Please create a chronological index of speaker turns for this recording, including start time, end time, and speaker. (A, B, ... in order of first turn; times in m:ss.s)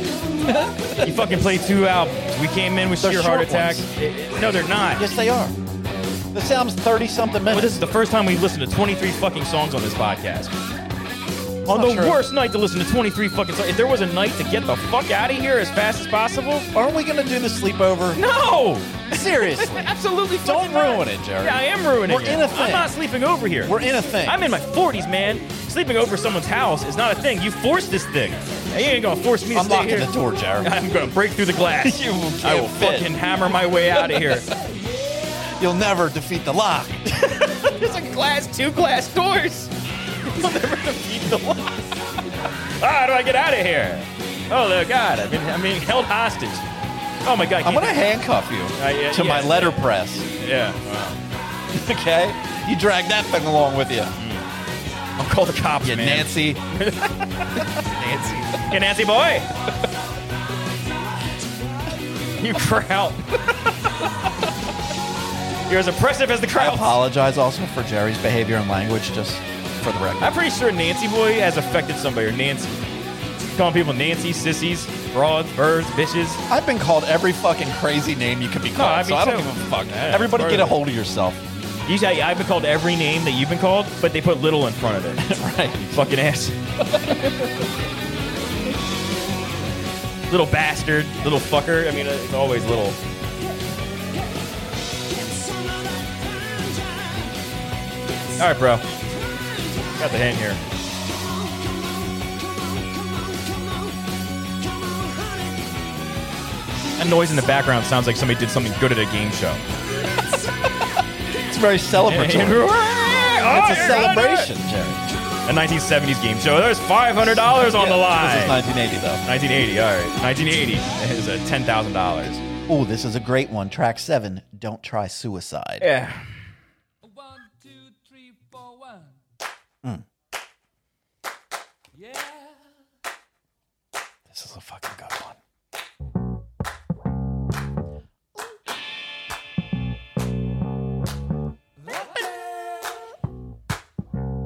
0:00.5-0:01.1 A
0:01.0-0:05.1 B
0:03.0-0:03.9 A
0:05.0-0:05.6 A
0:06.3-0:07.8 A
0:07.5-0:10.5 B
0:11.7-0:12.2 A
0:11.7-0:16.7 B
0:16.7-0:18.2 A
0:18.2-0:34.5 B
0:19.1-0:22.9 A
0:23.6-0:24.4 A
0:29.5-0:30.7 A
0:31.8-0:33.2 A
0:34.0-0:34.4 A
0:35.6-0:37.3 A
0:37.4-0:39.7 B
0:40.2-0:41.9 B
0:42.8-0:46.6 B
0:47.2-0:48.1 B
0:47.6-0:50.3 A
0:48.8-0:49.9 B
0:50.4-0:51.2 B
0:51.7-0:54.2 A
0:54.2-0:54.5 B
0:55.2-0:57.7 B
0:55.8-0:56.6 A
0:57.8-0:58.5 A
0:58.5-0:59.5 B
1:02.4-1:03.6 B
1:05.7-1:07.0 B
1:06.6-1:10.4 A
1:10.2-1:12.7 B
1:13.5-1:16.4 B
1:16.5-1:21.4 A
1:18.8-1:20.8 B
1:21.9-1:25.3 B
1:25.2-1:26.0 A
1:25.9-1:26.6 B
1:30.3-1:33.0 B
1:38.4-1:38.8 B
1:40.0-1:40.6 B
1:42.8-1:43.7 C
1:47.0-1:49.6 B
1:51.3-1:55.1 A
1:52.1-1:54.5 B
1:55.5-1:58.6 B
1:57.4-1:59.2 A
1:59.2-2:02.4 B
2:02.7-2:05.9 A
2:05.8-2:06.2 B
2:07.0-2:09.2 C
2:11.9-2:12.6 C
2:14.3-2:15.4 A
2:21.8-2:23.0 C